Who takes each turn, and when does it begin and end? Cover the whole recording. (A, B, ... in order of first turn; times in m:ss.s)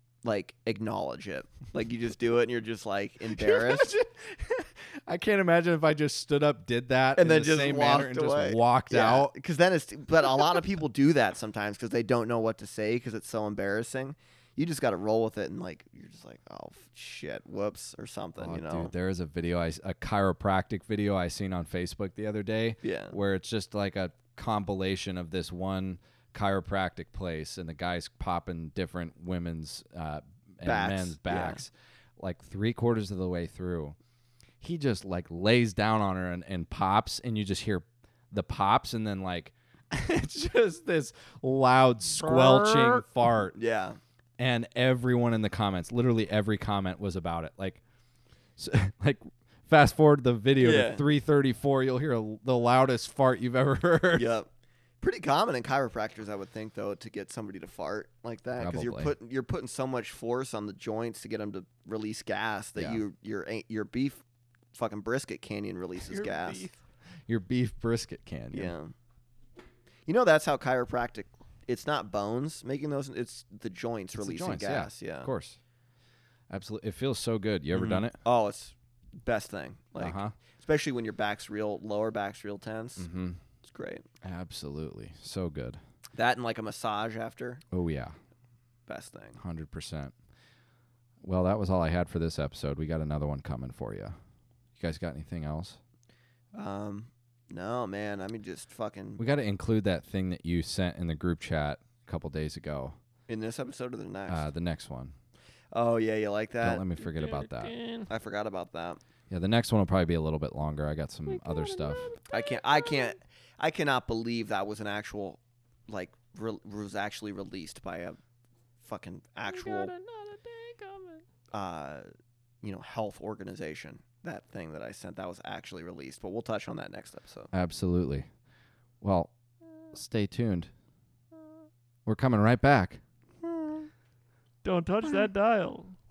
0:00.2-0:03.9 A
0:03.3-0:09.3 B
0:07.2-0:18.9 A
0:18.4-0:34.0 B
0:22.8-0:23.2 A
0:30.6-0:31.6 A
0:34.6-0:43.6 B
0:42.1-0:44.0 A
0:44.4-0:47.8 B
0:48.6-0:54.3 B
0:50.6-0:51.0 A
0:54.1-0:54.5 A
0:55.0-1:04.2 A
0:58.6-0:59.1 B
1:02.8-1:03.0 B
1:04.7-1:06.7 A
1:06.0-1:06.8 C
1:07.3-1:08.7 B
1:08.5-1:08.9 A
1:10.1-1:15.3 A
1:14.2-1:15.6 B
1:16.5-1:18.2 B
1:17.7-1:23.1 A
1:20.0-1:20.4 B
1:23.0-1:23.4 B
1:23.6-1:24.0 A
1:24.2-1:25.8 B
1:26.1-1:27.6 A
1:27.7-1:28.2 B
1:28.9-1:29.4 A
1:29.4-1:30.1 B
1:31.2-1:34.2 B
1:34.8-1:35.8 B
1:36.6-1:39.2 A
1:39.2-1:43.0 B
1:43.3-1:44.5 A
1:44.3-1:45.1 B
1:45.7-1:46.8 A
1:46.6-1:47.7 B
1:47.0-1:48.1 C
1:48.1-1:49.0 A
1:49.3-1:52.1 B
1:51.3-1:53.1 C
1:52.3-1:58.2 A
1:58.8-1:59.9 A
1:59.5-2:01.2 C
2:01.5-2:02.1 A
2:02.6-2:07.5 A
2:07.5-2:08.3 B
2:09.0-2:09.3 B
2:09.9-2:10.7 B
2:12.1-2:13.0 B
2:14.6-2:15.9 C